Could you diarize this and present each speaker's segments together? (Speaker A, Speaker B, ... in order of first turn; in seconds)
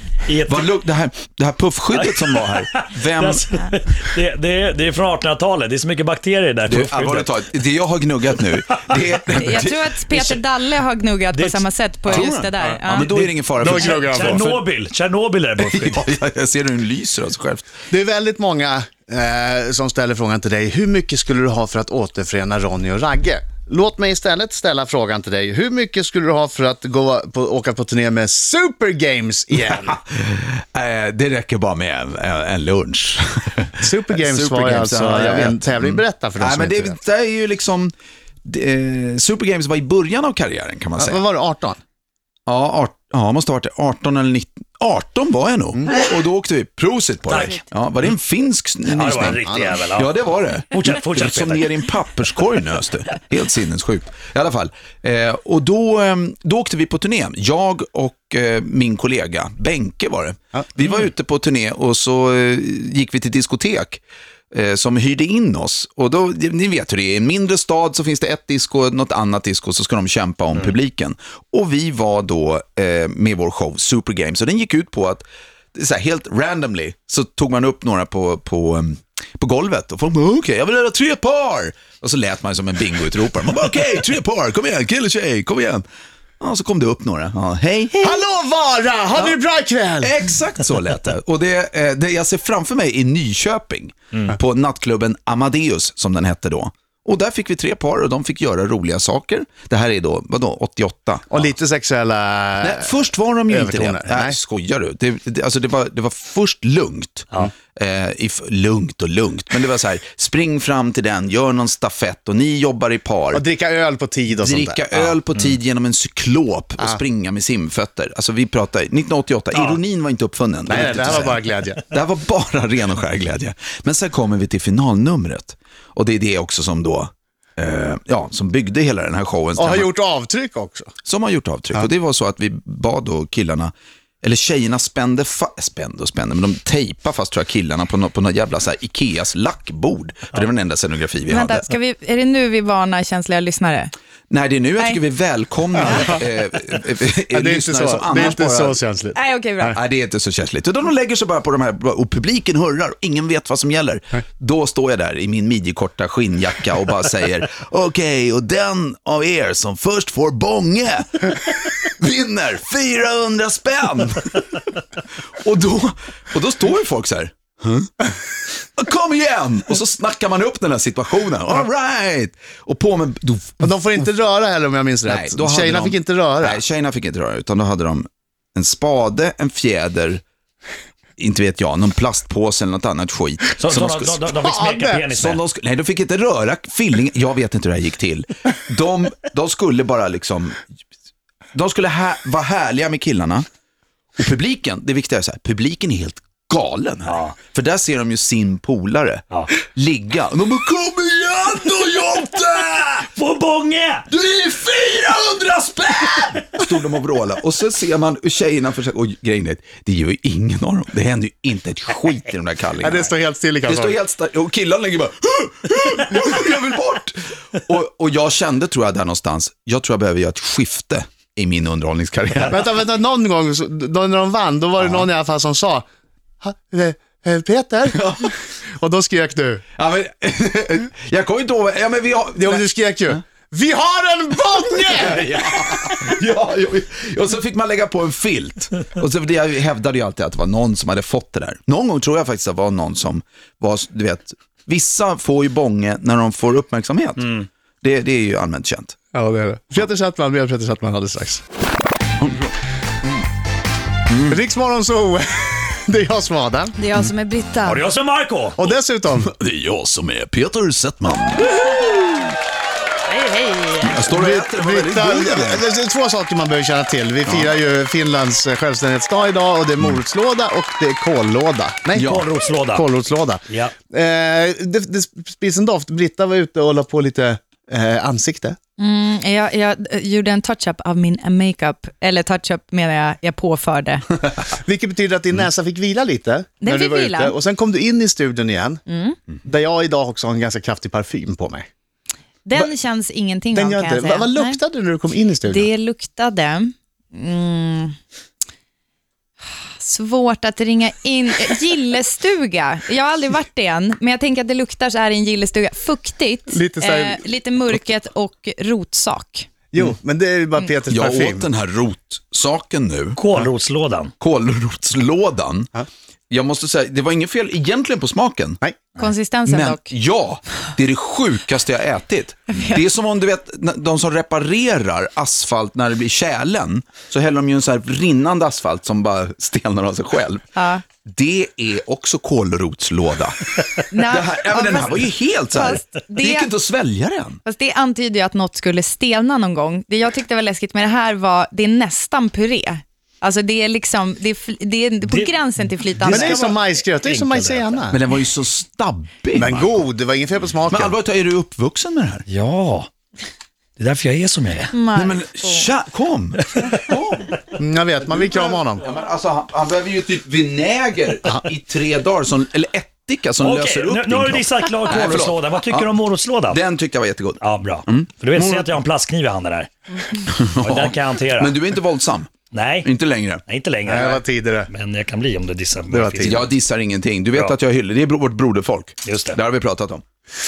Speaker A: 0.2-0.7, 1.9-7.3, 10.1-10.4, 11.3-16.1, 47.3-47.6, 48.9-50.1, 50.7-51.7, 119.5-119.8, 183.6-185.4, 197.1-197.3, 203.1-204.1, 257.6-258.6, 271.9-272.9, 273.5-273.7, 313.1-314.1, 345.1-345.3, 345.9-347.7, 352.3-352.9, 353.8-354.7, 363.4-366.6, 367.4-371.6, 372.5-372.9, 373.4-376.5, 379.0-379.4
Speaker B: 0.5-3.6, 6.7-10.2, 12.1-14.5, 15.6-17.7, 29.7-37.9, 38.4-41.2, 42.5-85.8, 86.4-88.2, 90.0-101.5, 102.6-113.4, 114.4-129.9, 131.0-141.7, 144.3-148.8, 149.7-164.6, 165.3-167.9, 168.7-173.7, 175.1-180.2, 181.2-184.3, 185.1-190.6, 191.5-193.4, 194.2-203.1, 204.1-213.1, 213.6-222.7, 227.9-228.3, 229.8-232.6, 234.9-248.9, 252.2-252.5, 254.1-254.4, 259.1-261.9, 263.8-265.6, 267.2-267.5, 271.9-272.3, 310.9-313.2, 314.2-315.7, 316.3-318.6, 319.4-330.5, 331.0-337.4, 347.9-349.8, 350.7-352.2, 354.9-357.4, 358.2-365.9, 366.5-368.8, 370.3-372.3, 372.8-373.4, 376.2-380.0
Speaker C: 9.3-13.1, 141.3-143.9, 149.1-149.8, 256.8-257.8, 263.1-264.0, 278.8-284.1, 286.6-287.3, 288.9-289.2, 292.4-294.6, 295.5-297.9, 299.8-309.5, 319.0-319.8, 330.6-330.8, 333.9-336.5, 337.4-346.4, 354.7-355.7
Speaker D: 13.6-14.6, 17.9-30.0, 33.8-37.0, 41.0-41.8, 49.5-49.7, 88.0-90.1, 101.3-102.9, 103.5-104.3, 113.3-114.8, 120.7-121.8, 129.6-130.9, 145.8-146.2, 147.3-149.8, 173.6-176.6, 184.4-185.0, 212.8-214.0, 222.5-225.8, 226.4-229.6, 232.3-235.9, 249.1-251.4, 254.2-256.7, 258.6-259.3, 264.1-272.2, 272.7-278.6, 284.5-288.8, 289.4-291.7, 293.5-295.7, 306.5-307.3, 309.7-311.5, 346.1-348.0, 349.3-350.9, 357.6-358.8, 373.9-374.7, 375.9-376.4